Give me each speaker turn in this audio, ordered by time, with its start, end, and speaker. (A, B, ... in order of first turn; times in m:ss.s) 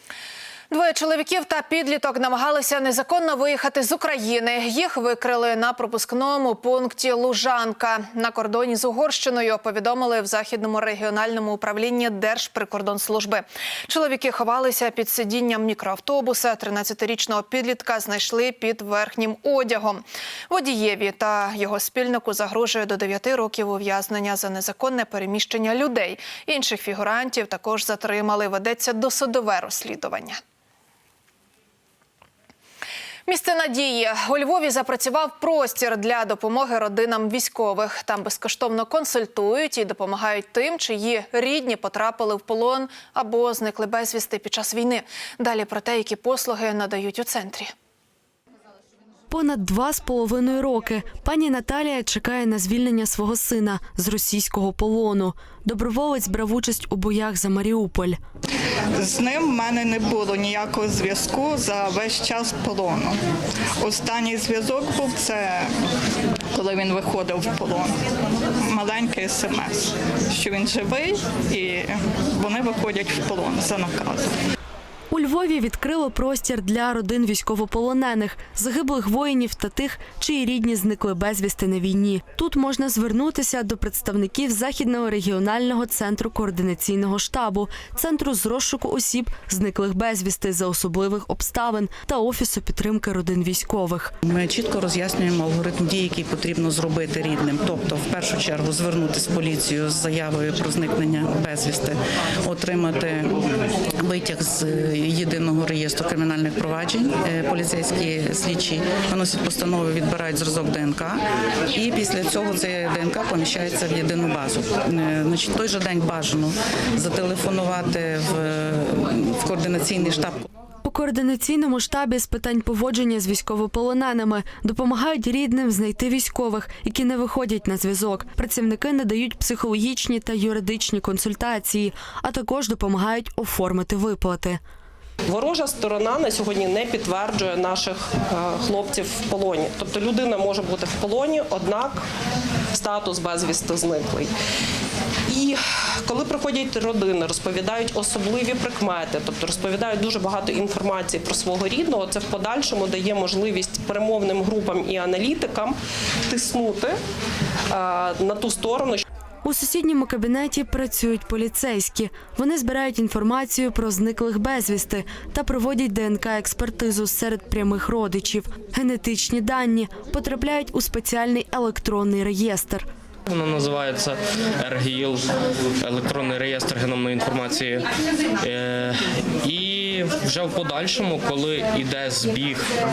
0:00.7-0:30.4 A
0:33.3-0:47.7 A
0:49.3-0:58.2 B
0:59.0-1:03.2 C
1:03.8-1:05.7 C
1:06.5-1:08.0 C
1:08.6-1:14.3 C
1:15.1-1:34.1 B
1:34.2-1:43.4 D
1:43.9-2:00.4 D
2:00.8-2:14.6 B
2:15.3-2:22.0 E
2:22.8-2:24.3 E
2:25.3-2:35.8 E
2:36.3-2:37.0 E
2:37.8-2:39.0 E
2:39.4-2:52.8 B
2:53.3-2:57.9 F
2:58.4-3:02.7 F